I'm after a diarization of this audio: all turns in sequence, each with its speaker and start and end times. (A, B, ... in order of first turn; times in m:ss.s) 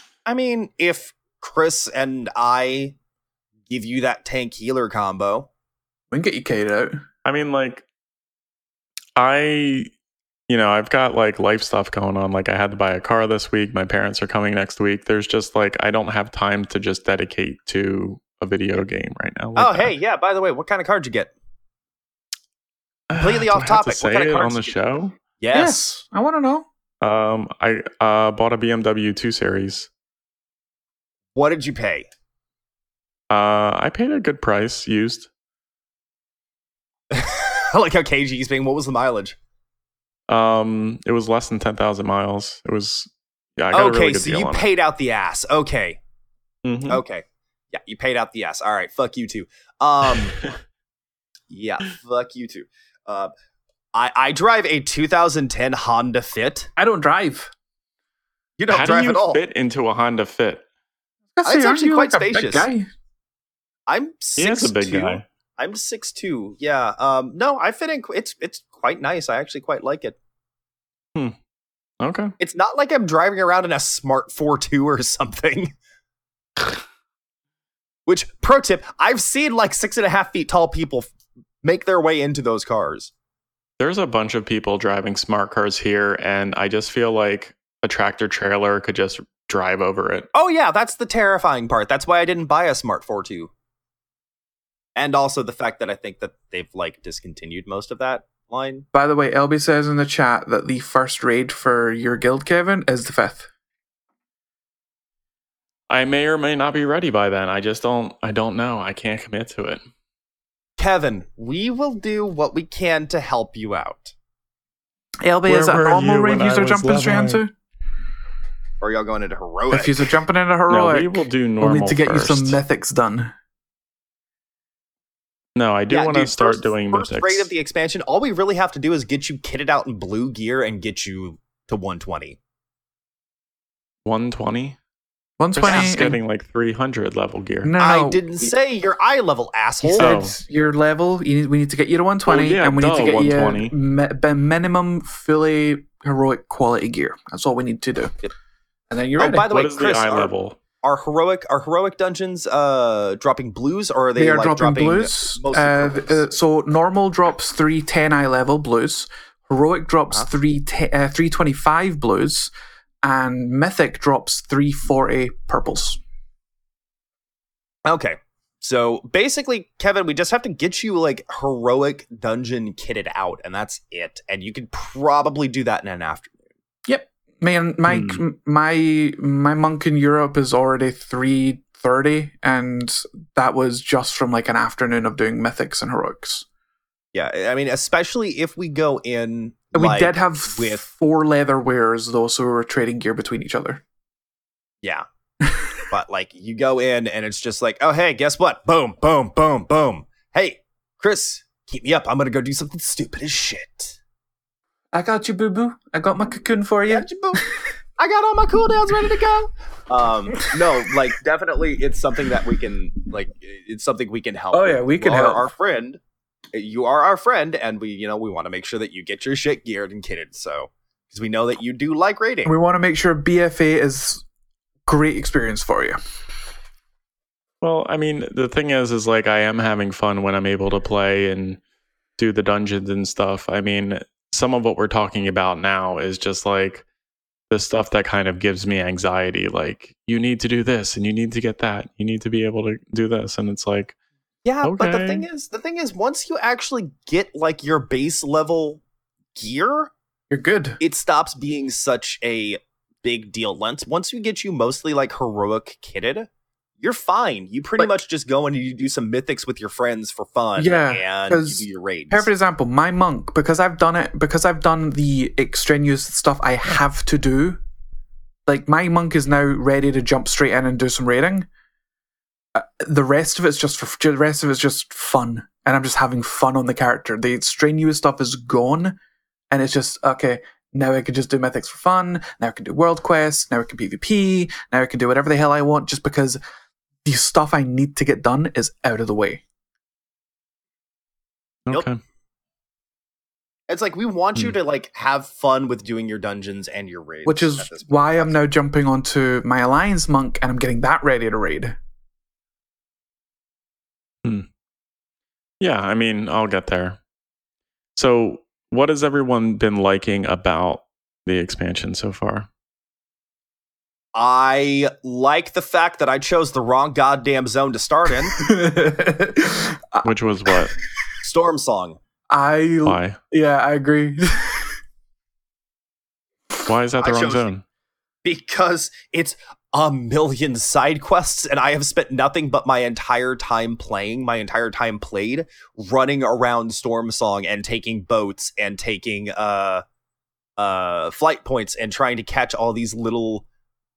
0:00.2-0:02.9 A
0:03.7-0:05.5 A
0:06.1-0:07.0 B
0:07.2-0:07.8 C
0:09.2-0:09.9 C
0:10.5-0:19.9 C
0:19.6-0:21.3 A
0:23.1-0:25.2 C
0:23.2-0:24.8 A
0:25.4-0:25.8 A
0:25.5-0:26.7 B
0:27.0-0:29.9 C
0:31.3-0:32.1 A
0:33.3-0:35.3 C
0:37.1-0:39.4 A
0:40.3-0:44.6 C
0:43.7-0:46.0 A
0:46.6-0:47.0 C
0:46.9-0:50.4 A
0:51.5-0:53.3 A
0:53.9-0:56.7 A
0:56.8-0:57.5 B
0:58.6-0:59.4 A
0:58.7-1:00.6 C
1:01.4-1:02.9 B
1:01.4-1:02.7 A
1:03.9-1:10.2 A
1:04.4-1:05.2 C
1:12.0-1:12.3 C
1:12.4-1:15.7 A
1:18.1-1:21.1 A
1:21.6-1:23.1 A
1:23.8-1:30.3 C
1:30.3-1:33.5 A
1:35.0-1:38.8 A
1:38.9-1:43.5 B
1:45.9-1:49.8 C
1:50.8-1:54.1 A
1:55.2-1:57.5 B
1:55.5-1:57.4 C
1:58.8-2:00.1 A
1:59.7-2:03.3 B
2:00.7-2:02.6 C
2:05.6-2:07.5 C
2:05.9-2:12.4 A
2:14.0-2:14.8 C
2:15.4-2:16.2 B
2:15.6-2:17.7 C
2:15.6-2:15.9 A
2:17.6-2:18.2 B
2:17.8-2:20.2 A
2:19.8-2:28.2 B
2:20.0-2:20.4 C
2:22.2-2:23.7 C
2:28.9-2:29.5 B
2:29.2-2:30.3 A
2:29.5-2:30.6 C
2:30.8-2:36.3 A
2:34.2-2:42.5 B
2:43.0-2:46.0 B
2:47.8-2:56.4 A
2:56.8-3:06.4 B
2:57.9-2:58.2 C
3:07.1-3:10.8 A
3:09.7-3:13.8 B
3:15.9-3:24.0 A
3:24.9-3:27.1 B
3:26.9-3:27.4 A
3:28.0-3:36.0 A
3:34.5-3:35.5 B
3:36.5-3:42.5 A
3:42.4-3:44.2 B
3:44.8-3:46.0 B
3:47.6-3:51.6 C
3:52.2-3:56.8 C
3:57.5-4:03.9 C
4:04.4-4:08.8 A
4:04.6-4:05.2 C
4:09.3-4:09.9 A
4:10.3-4:10.8 B
4:10.8-4:16.3 A
4:16.8-4:22.3 A
4:20.6-4:27.6 B
4:28.5-4:31.5 B
4:32.5-4:39.0 B
4:39.5-4:46.4 B
4:47.0-4:49.4 B
4:51.7-4:52.0 C
4:53.7-4:58.4 A
4:57.2-5:01.8 B
5:05.6-5:07.0 C
5:08.0-5:12.5 C
5:14.1-5:18.4 A
5:18.3-5:20.7 B
5:20.0-5:20.7 C
5:21.2-5:22.0 A
5:22.3-5:24.8 B
5:22.8-5:23.2 C
5:26.6-5:27.6 C
5:27.0-5:27.5 A
5:28.2-5:39.8 A
5:40.6-5:43.4 A